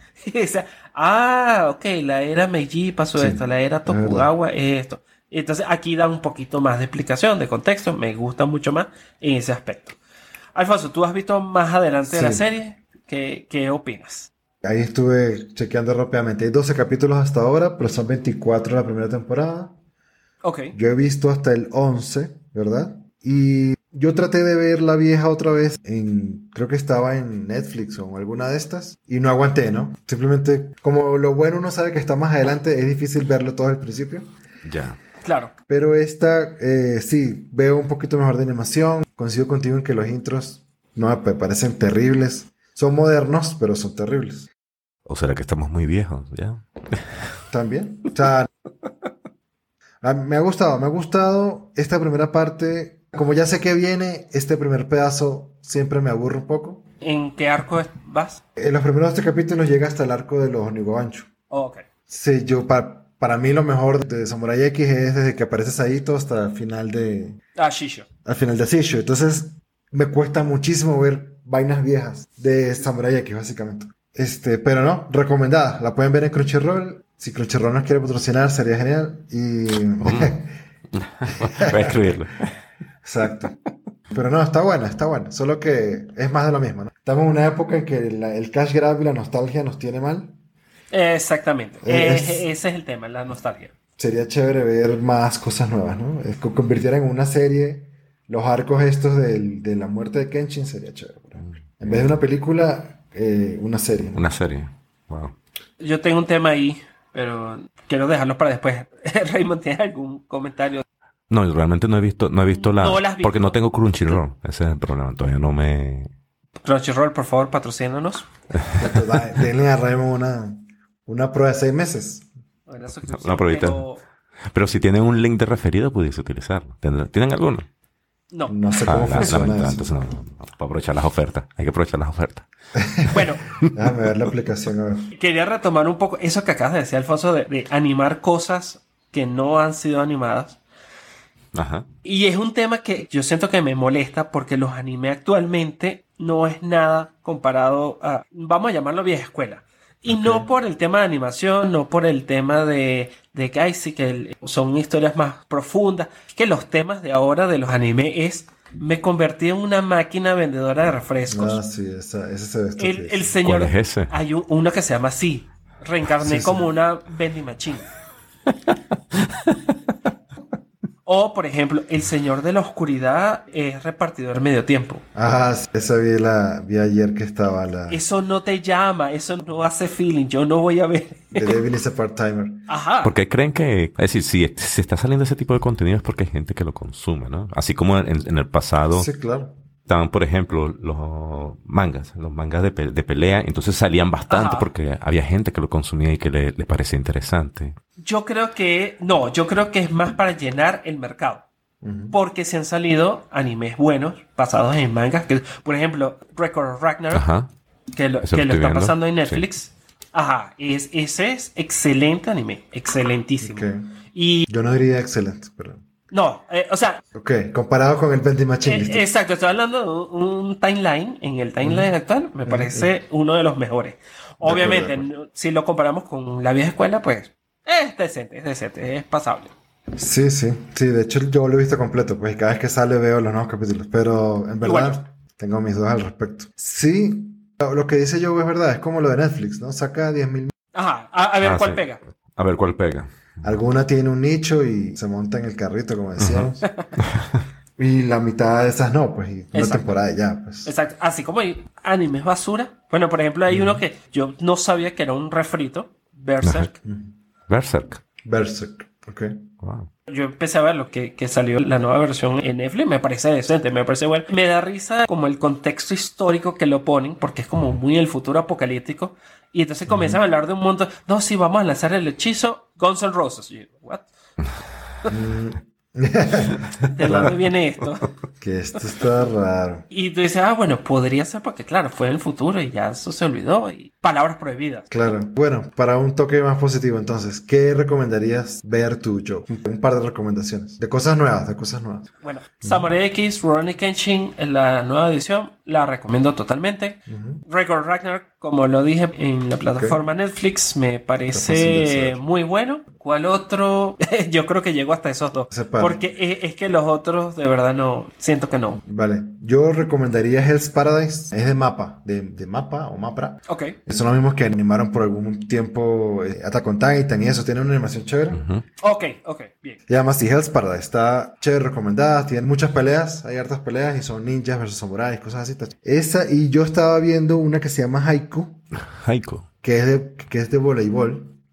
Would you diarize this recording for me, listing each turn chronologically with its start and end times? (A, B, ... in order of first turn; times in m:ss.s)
0:00.2-0:10.0 A
0:03.1-0:04.3 B
0:10.5-0:14.3 A
0:12.1-0:12.4 B
0:14.6-0:19.7 B
0:20.4-0:20.8 A
0:20.7-0:34.3 B
0:34.6-0:35.0 C
0:35.2-0:35.5 A
0:35.7-0:44.5 B
0:45.0-0:47.1 C
0:47.5-0:48.5 B
0:50.0-0:56.8 B
0:57.0-0:58.4 A
0:58.6-1:01.3 B
1:01.5-1:01.8 A
1:02.1-1:07.4 B
1:07.6-1:08.0 A
1:08.2-1:20.5 B
1:20.0-1:20.3 C
1:20.9-1:22.5 C
1:21.4-1:22.2 B
1:23.0-1:23.5 B
1:24.1-1:30.3 B
1:30.9-1:33.7 A
1:31.8-1:32.5 B
1:34.0-1:44.2 B
1:44.1-1:45.4 C
1:45.8-1:50.8 A
1:51.3-1:56.1 C
1:52.5-1:54.2 A
1:56.6-1:58.3 A
1:58.7-1:59.1 C
1:58.8-2:02.3 B
2:02.7-2:04.0 A
2:03.1-2:03.8 C
2:04.5-2:07.7 C
2:08.3-2:08.6 A
2:08.4-2:09.9 B
2:08.8-2:12.5 C
2:12.7-2:13.2 B
2:13.1-2:13.4 A
2:13.7-2:15.1 B
2:15.1-2:20.6 A
2:21.5-2:21.9 C
2:22.0-2:41.6 A
2:30.1-2:30.5 B
2:41.3-2:43.3 B
2:42.8-2:47.9 A
2:43.4-2:44.1 C
2:46.2-2:46.7 B
2:48.7-2:49.5 C
2:51.0-2:55.0 A
2:55.1-2:58.0 B
2:57.9-3:01.6 A
3:01.3-3:02.7 B
3:02.7-3:03.1 A
3:03.0-3:09.1 C
3:08.9-3:09.5 B
3:09.9-3:17.7 C
3:14.3-3:14.7 A
3:18.0-3:21.4 A
3:21.8-3:22.2 B
3:22.1-3:27.3 A
3:27.1-3:27.5 C
3:27.9-3:34.5 A
3:28.2-3:29.5 C
3:33.4-3:33.9 B
3:34.5-3:35.8 B
3:36.1-3:37.0 A
3:37.1-3:39.1 B
3:38.6-3:49.5 A
3:41.6-3:41.9 B
3:42.4-3:42.9 B
3:44.4-3:45.0 B
3:50.0-4:00.5 B
3:54.6-3:55.0 A
4:00.7-4:02.0 A
4:01.4-4:03.1 C
4:03.4-4:06.7 B
4:06.2-4:07.2 C
4:06.6-4:06.9 A
4:07.8-4:10.7 B
4:09.5-4:10.0 A
4:10.6-4:16.7 A
4:13.5-4:13.8 B
4:16.4-4:16.7 C
4:16.8-4:17.1 B
4:17.5-4:18.0 C
4:18.2-4:19.4 B
4:19.6-4:19.9 C
4:20.1-4:34.1 A
4:35.1-4:37.3 B
4:36.9-4:38.0 A
4:38.4-4:39.8 B
4:39.9-4:44.9 A
4:44.9-4:52.1 B
4:52.2-5:08.8 A
4:52.6-4:52.9 B
4:57.1-4:57.4 B
4:59.7-5:00.0 B
5:01.3-5:02.2 B
5:05.5-5:06.0 B
5:08.8-5:18.4 B
5:13.5-5:13.8 A
5:18.3-5:18.6 C
5:18.8-5:19.8 A
5:19.9-5:28.6 B
5:28.7-5:29.4 C
5:29.6-5:31.4 B